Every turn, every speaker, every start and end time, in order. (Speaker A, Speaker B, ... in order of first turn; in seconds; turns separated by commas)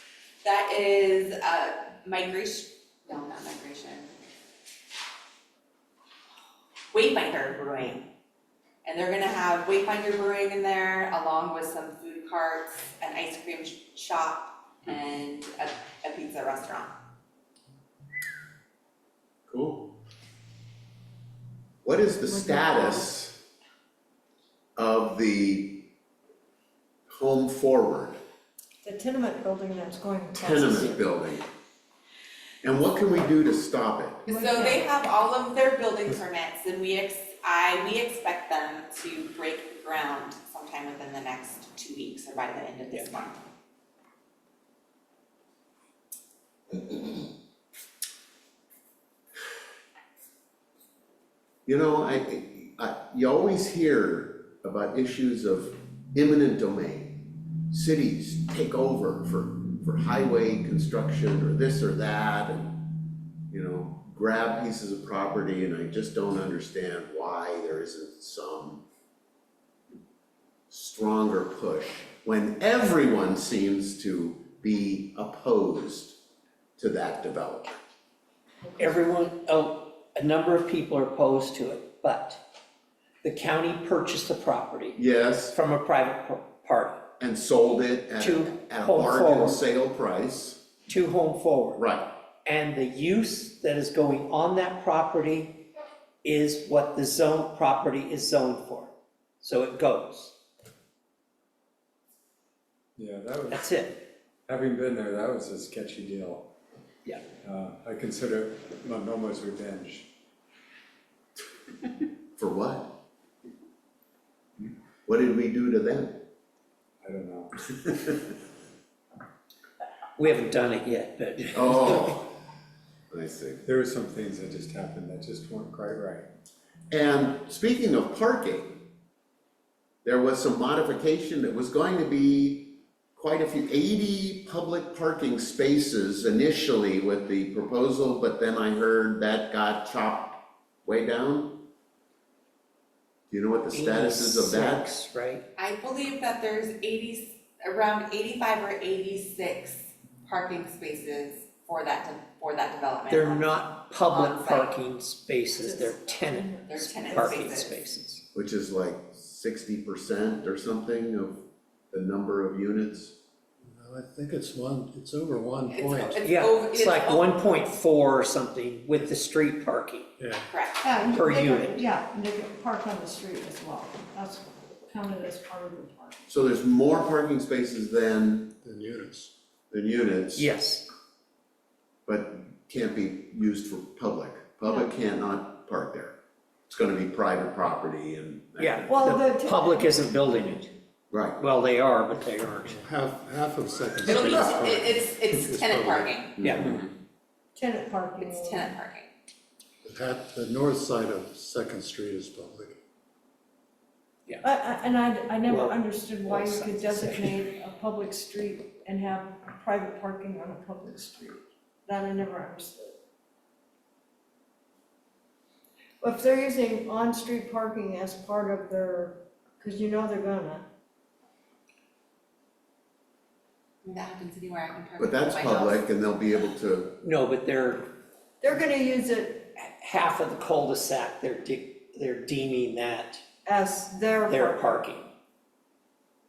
Speaker A: 0.4-4.1, Speaker A: 6.9-8.1, Speaker A: 8.8-16.9, Speaker B: 19.5-19.9, Speaker B: 21.8-23.4, Speaker C: 22.3-23.1, Speaker B: 24.8-25.9, Speaker B: 27.1-28.2, Speaker C: 28.8-31.1, Speaker B: 30.3-31.4, Speaker B: 32.6-34.2, Speaker A: 34.3-43.4, Speaker C: 34.3-34.8, Speaker B: 51.6-68.8, Speaker B: 70.7-76.2, Speaker B: 76.8-77.8, Speaker D: 78.8-82.4, Speaker D: 83.2-87.0, Speaker B: 85.0-85.5, Speaker B: 87.2-90.6, Speaker D: 88.2-89.6, Speaker D: 90.9-91.8, Speaker B: 91.8-92.1, Speaker D: 92.4-95.6, Speaker D: 96.2-100.3, Speaker E: 103.0-103.7, Speaker D: 103.5-104.0, Speaker E: 104.5-106.5, Speaker E: 107.4-110.1, Speaker B: 112.4-112.9, Speaker B: 115.0-116.2, Speaker E: 117.0-117.6, Speaker D: 120.2-122.2, Speaker B: 121.5-122.3, Speaker B: 123.1-123.6, Speaker E: 123.7-126.3, Speaker B: 126.9-128.8, Speaker B: 130.0-141.6, Speaker B: 143.3-144.9, Speaker D: 143.7-145.4, Speaker A: 145.6-154.7, Speaker D: 153.1-158.2, Speaker C: 155.5-157.4, Speaker A: 156.6-157.8, Speaker B: 158.3-163.1, Speaker F: 163.6-166.3, Speaker A: 165.7-167.8, Speaker D: 166.2-170.1, Speaker F: 170.2-170.4, Speaker A: 170.5-170.9, Speaker C: 170.8-176.2, Speaker D: 171.1-171.8, Speaker B: 176.3-178.5, Speaker F: 178.6-179.3, Speaker B: 179.7-180.5, Speaker D: 180.3-180.8, Speaker B: 182.1-186.2, Speaker B: 186.7-189.1, Speaker D: 188.6-190.7, Speaker C: 188.9-190.2, Speaker B: 191.1-191.4, Speaker D: 191.4-192.9, Speaker F: 192.6-196.3, Speaker D: 194.0-194.6, Speaker A: 194.0-196.4, Speaker B: 196.4-196.8, Speaker D: 196.4-196.7, Speaker C: 197.6-198.7, Speaker A: 198.2-199.1, Speaker F: 199.8-202.8, Speaker C: 204.4-212.9, Speaker D: 205.5-207.4, Speaker C: 216.0-220.6, Speaker A: 223.8-225.9, Speaker B: 225.0-227.0, Speaker D: 227.0-227.8, Speaker C: 228.4-229.5, Speaker D: 229.5-233.2, Speaker C: 233.4-234.9, Speaker D: 234.3-235.1